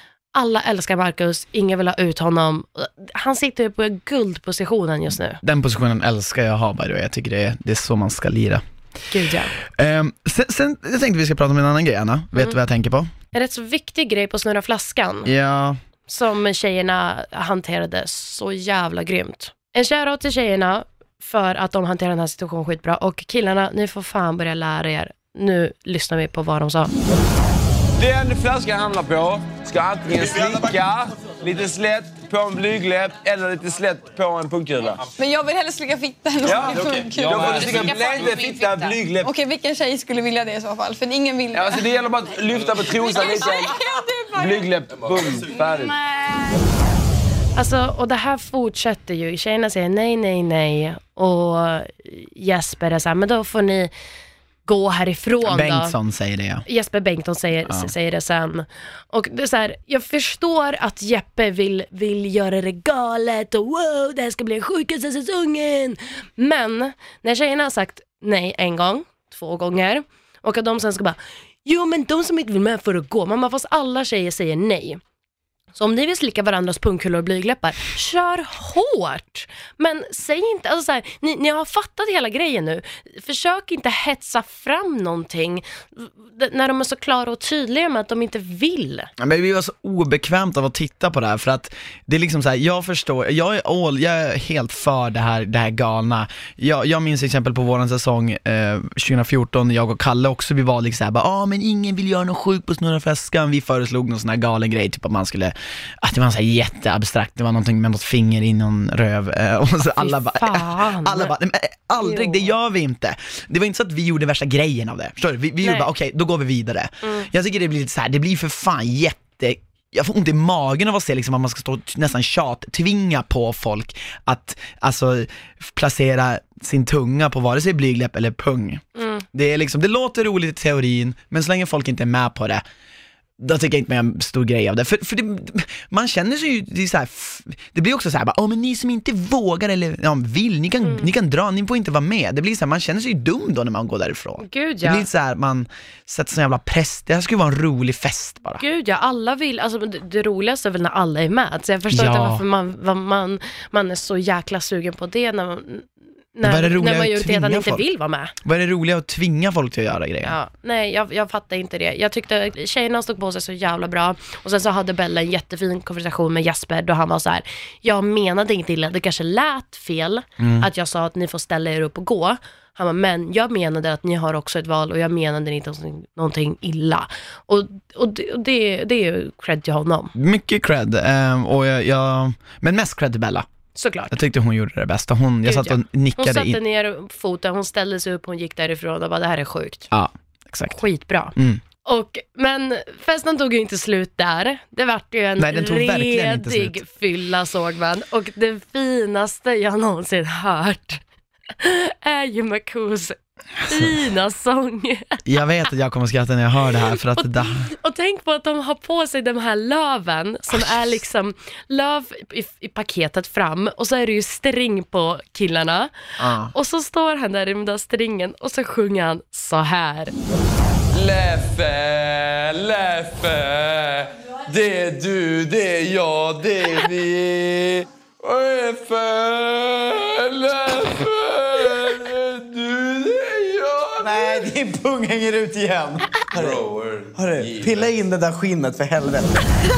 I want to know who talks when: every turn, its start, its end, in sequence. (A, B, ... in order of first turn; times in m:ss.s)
0:00.3-0:05.4 A
0:05.4-0:08.6 B
0:09.1-0:09.6 A
0:09.6-0:13.1 B
0:13.3-0:15.3 A
0:15.2-0:15.8 B
0:16.1-0:26.9 A
0:28.0-0:35.1 C
0:35.2-0:41.9 D
0:36.4-0:39.3 C
0:41.5-0:43.8 C
0:42.9-0:44.6 D
0:44.3-0:46.0 C
0:47.6-0:53.9 A
0:54.6-0:55.9 A
0:55.4-0:56.6 B
0:56.6-1:15.0 A
0:57.7-0:57.9 B
1:15.8-1:29.1 A
1:29.2-2:12.6 B
1:49.9-1:51.3 A
1:52.0-1:52.5 A
1:55.6-1:55.9 A
1:57.0-1:57.3 A
2:09.0-2:09.2 A
2:13.4-2:28.6 B
2:24.4-2:25.1 A
2:28.6-2:38.3 A
2:31.9-2:32.4 B
2:36.4-2:37.8 B
2:38.4-2:40.3 B
2:40.2-3:00.1 A
2:50.4-2:50.7 B
3:00.1-3:03.4 B
3:03.8-3:04.2 A
3:04.1-3:06.6 B
3:05.4-3:09.9 A
3:09.9-3:10.8 B
3:10.7-3:21.0 A
3:11.4-3:11.6 B
3:15.4-3:16.8 B
3:21.6-3:25.2 A
3:25.2-3:27.7 B
3:27.1-3:36.0 A
3:30.5-3:30.9 B
3:36.2-3:36.5 B
3:36.5-3:40.1 A
3:40.9-3:54.6 C
3:54.1-3:55.7 E
3:56.3-3:57.9 C
3:56.3-3:56.6 E
3:57.1-3:59.3 E